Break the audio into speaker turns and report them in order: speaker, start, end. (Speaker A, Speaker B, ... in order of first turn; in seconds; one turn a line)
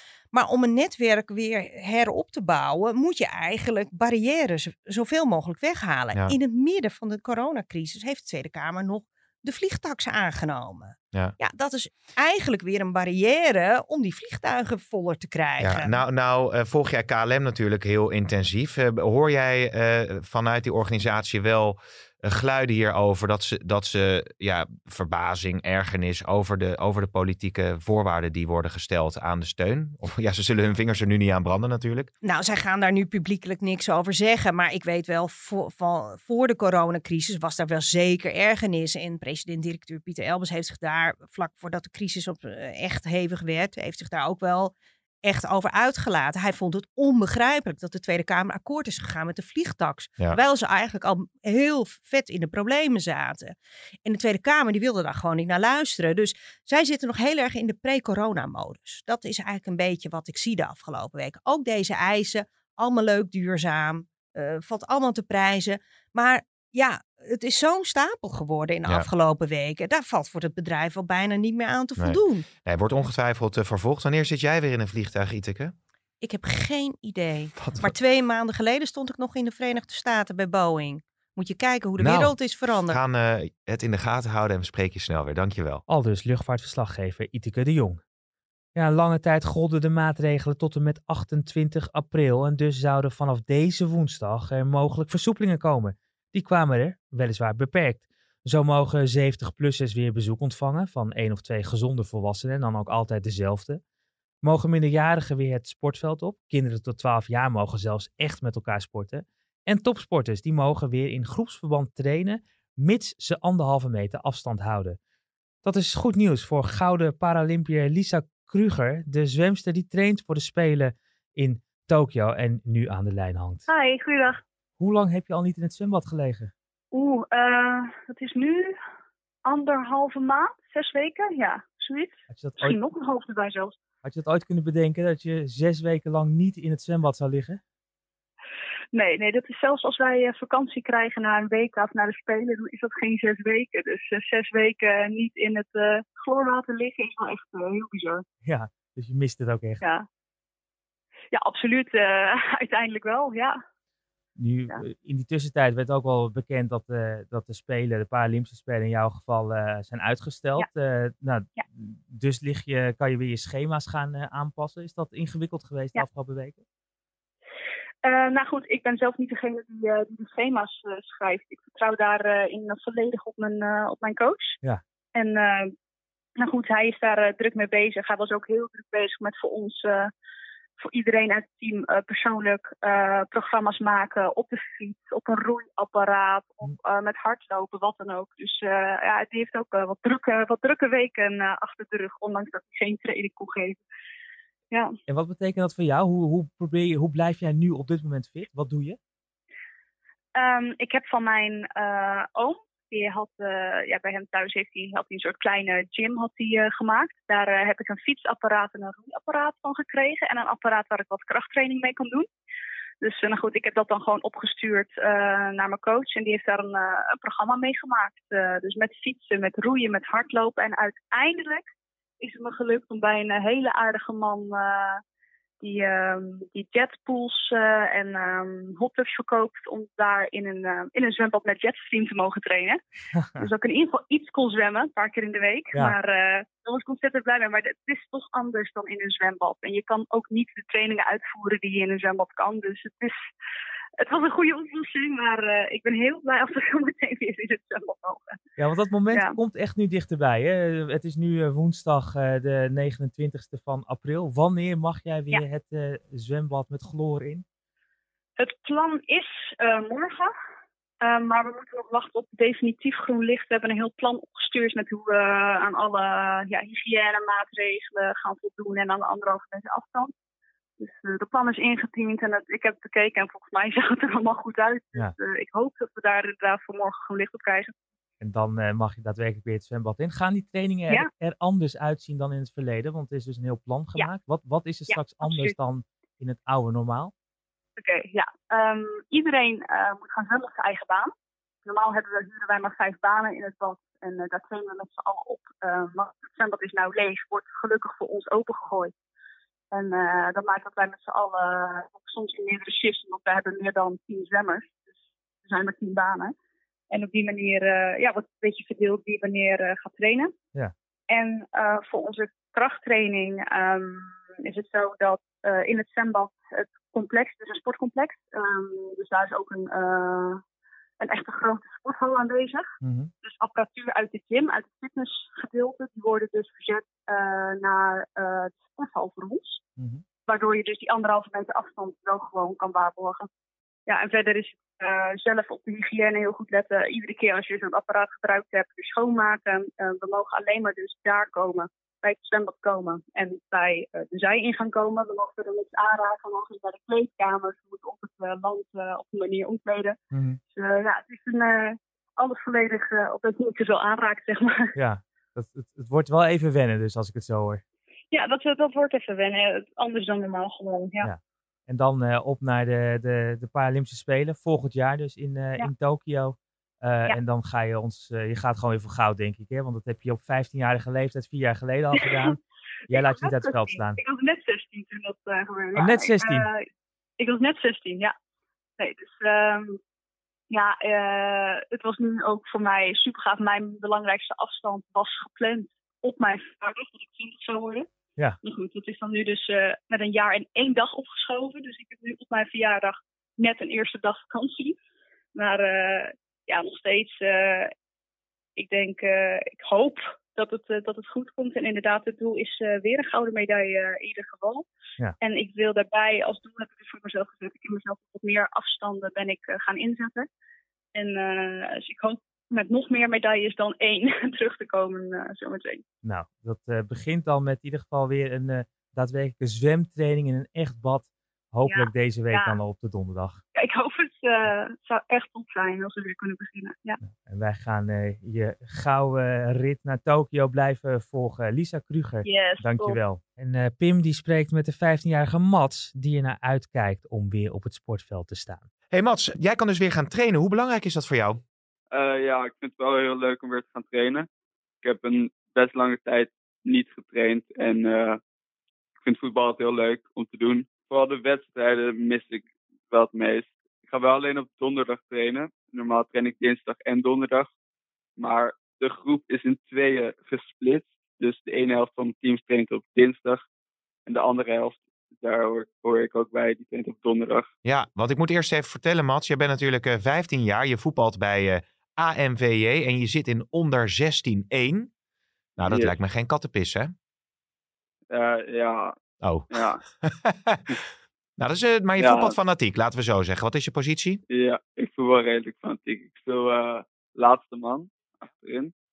Speaker A: 0.3-15.9
Speaker B: 15.6-32.1
Speaker A: 32.2-44.7
Speaker A: 45.2-72.4
Speaker B: 72.0-75.7
Speaker A: 76.2-83.0
Speaker B: 77.6-77.9
Speaker B: 82.0-85.8
Speaker C: 85.9-88.0
Speaker C: 88.8-103.8
Speaker C: 104.4-115.0
Speaker C: 115.6-123.7
Speaker D: 123.7-124.4
Speaker C: 124.8-126.5
Speaker D: 126.9-128.8
Speaker D: 129.4-133.8
Speaker C: 132.3-132.8
Speaker C: 134.0-137.6
Speaker D: 138.9-148.2
Speaker C: 148.4-149.8
Speaker D: 149.8-150.1
Speaker D: 151.3-153.6
Speaker C: 154.4-166.6
Speaker D: 168.0-174.6
Speaker D: 175.1-175.7
Speaker D: 176.4-180.1
Speaker D: 180.8-193.8
Speaker C: 195.1-199.0
Speaker D: 200.4-212.3
Speaker D: 213.0-221.7
Speaker D: 222.2-225.0
Speaker D: 225.6-232.8
Speaker C: 233.1-233.5
Speaker D: 233.4-243.3
Speaker D: 244.0-248.4
Speaker C: 248.6-257.4
Speaker D: 249.1-249.4
Speaker D: 258.4-260.3
Speaker D: 261.0-270.1
Speaker D: 270.8-277.7
Speaker C: 278.2-287.1
Speaker D: 284.9-285.5
Speaker D: 287.8-291.1
Speaker D: 291.6-298.9
Speaker D: 299.7-304.8
Speaker D: 305.4-306.4
Speaker D: 306.9-310.3
Speaker D: 311.1-320.4
Speaker D: 321.0-322.7
Speaker C: 322.8-323.1
Speaker D: 323.2-329.6
Speaker C: 329.8-330.0
Speaker D: 330.3-333.3
Speaker D: 333.9-350.0
Speaker C: 350.1-350.4
Speaker D: 350.5-354.7
Speaker C: 354.8-357.6
Speaker D: 358.1-361.1
Speaker C: 361.0-372.4
Speaker D: 371.9-372.4
Speaker C: 372.9-374.0
Speaker D: 372.9-376.6
Speaker C: 375.8-376.5
Speaker D: 377.2-378.1
Speaker D: 378.8-379.8
Speaker D: 380.5-387.9
Speaker D: 388.4-394.8
Speaker D: 395.4-397.7
Speaker D: 398.6-404.6
Speaker D: 405.2-410.3
Speaker D: 410.9-415.8
Speaker C: 416.0-423.4
Speaker D: 421.6-422.6
Speaker D: 423.6-427.0
Speaker C: 427.0-438.6
Speaker D: 432.2-433.0
Speaker B: 438.9-441.4
Speaker E: 441.9-444.3
Speaker E: 444.8-448.2
Speaker E: 449.0-457.5
Speaker E: 458.2-463.4
Speaker E: 464.1-467.5
Speaker B: 467.6-474.9
Speaker B: 475.6-476.9
Speaker E: 475.6-475.9
Speaker E: 478.1-478.9
Speaker B: 479.2-479.5
Speaker E: 479.5-479.8
Speaker B: 480.0-480.8
Speaker B: 481.4-484.2
Speaker E: 482.0-482.3
Speaker E: 484.3-488.7